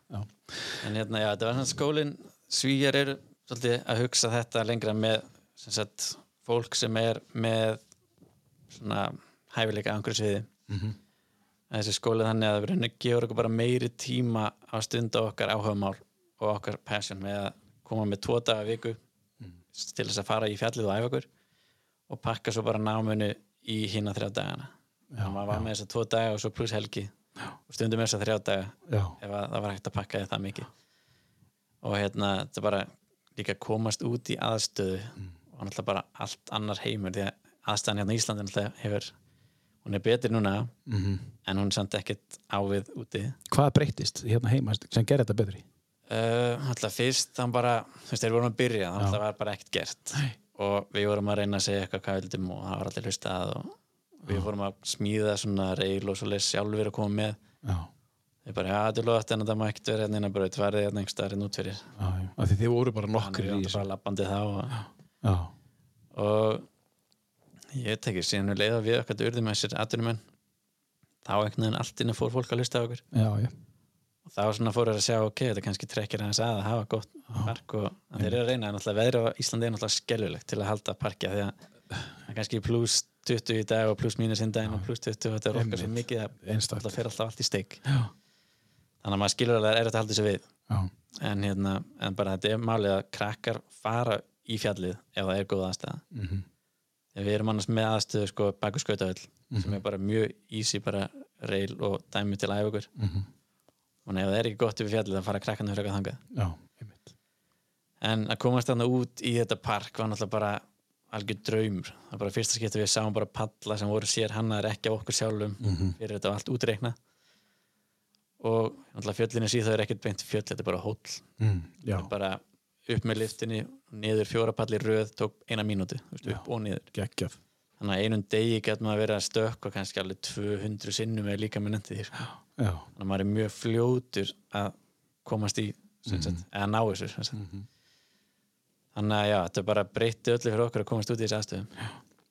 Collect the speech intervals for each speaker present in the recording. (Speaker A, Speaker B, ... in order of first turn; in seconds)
Speaker A: 0.8-7.8, 8.7-10.5, 11.7-19.0, 19.7-21.3, 22.1-27.1, 27.7-30.7, 31.8-39.1, 39.8-40.7, 41.4-43.4, 46.1-57.4, 58.4-61.9, 63.1-64.8, 66.1-66.7, 67.7-70.2, 71.2-73.0, 74.3-81.6, 82.3-87.8, 89.0-90.4, 91.2-96.0, 97.1-102.9, 104.1-106.2, 108.0-116.9, 118.4-121.2, 121.9-126.9, 127.8-132.3, 132.9-137.4, 138.9-141.7
Speaker B: 10.7-10.9, 25.1-25.6, 28.9-29.1, 40.9-41.3, 43.5-45.6, 57.6-57.9, 62.0-63.8, 65.2-65.5, 73.1-73.5, 85.5-86.9, 96.1-96.4, 99.5-99.8, 103.0-103.3, 106.3-107.1, 115.6-116.0, 121.4-122.1, 126.2-127.3, 132.6-132.9, 136.1-136.4, 137.4-137.6